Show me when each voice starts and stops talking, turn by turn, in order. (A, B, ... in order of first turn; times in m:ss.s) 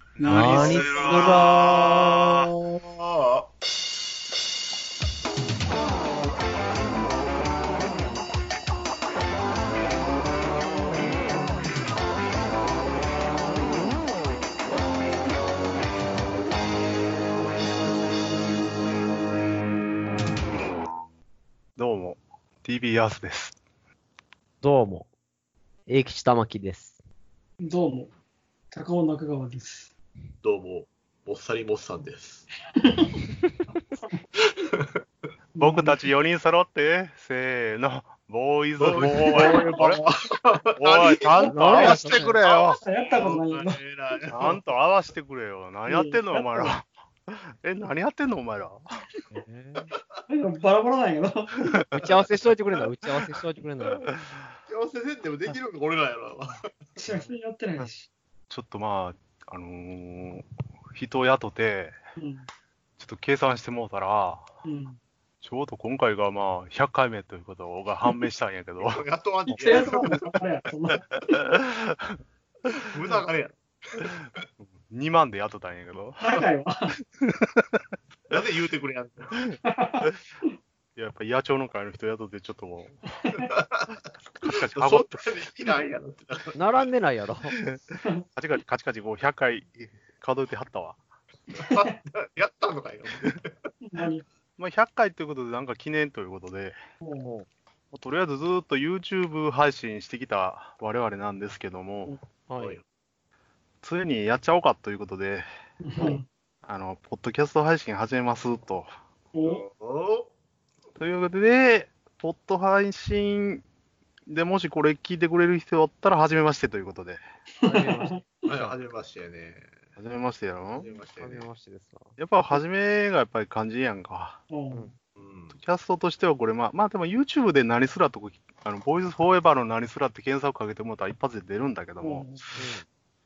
0:00.2-0:02.1 A
0:00.2-0:01.7 B
0:00.2-0:01.8 C
0:00.8-0:02.2 D
0:02.7-0:03.5 D
0:21.8-0:23.6 C
0:24.6-0:25.1 B
0:25.9-0:27.0 B
0:27.6-0:28.1 A
0:28.7-0:29.9 A
0:30.4-0:32.5 D
0:32.8-0:33.2 A
0:34.6-0:34.9 D
0:35.6-0:36.0 A
0:35.6-0:40.1 C
0:38.8-0:44.6 D
0:39.2-0:39.7 A
0:40.8-0:42.8 C
0:41.5-0:42.4 B
0:42.8-0:43.8 A
0:44.3-0:48.8 C
0:45.9-0:46.7 A
0:49.3-0:49.9 B
0:50.3-0:51.8 A
0:51.6-0:52.1 C
0:51.9-0:54.1 B
0:54.7-0:56.7 D
0:57.0-0:58.1 A
0:58.5-1:02.0 C
1:02.2-1:02.5 A
1:03.0-1:04.5 C
1:04.6-1:05.0 A
1:05.4-1:09.0 C
1:08.8-1:10.3 D
1:09.4-1:11.4 A
1:09.6-1:10.2 C
1:11.2-1:13.0 C
1:12.8-1:14.2 D
1:14.6-1:16.2 C
1:16.2-1:17.0 A
1:17.2-1:17.8 C
1:18.3-1:19.4 D
1:19.6-1:20.1 A
1:21.0-1:23.0 C
1:23.2-1:23.5 A
1:23.4-1:26.6 D
1:24.4-1:25.3 C
1:26.5-1:27.5 B
1:27.6-1:31.0 C
1:31.5-1:33.5 D
1:33.8-1:34.2 A
1:34.6-1:36.7 C
1:37.0-1:37.3 A
1:37.9-1:42.1 C
1:42.5-1:42.7 B
1:42.6-1:42.8 D
1:43.8-1:45.4 C
1:45.8-1:46.2 A
1:46.6-1:48.9 C
1:49.3-1:49.6 A
1:49.4-1:50.3 D
1:51.0-1:53.6 C
1:54.3-1:57.2 C
1:57.6-1:58.7 B
1:57.6-1:58.2 A
1:58.4-1:59.7 D
2:00.0-2:00.9 C
2:00.8-2:01.4 D
2:01.2-2:02.2 B
2:02.2-2:04.4 C
2:04.5-2:04.9 A
2:05.2-2:05.6 D
2:05.5-2:12.6 C
2:12.0-2:12.4 A
2:12.6-2:12.8 B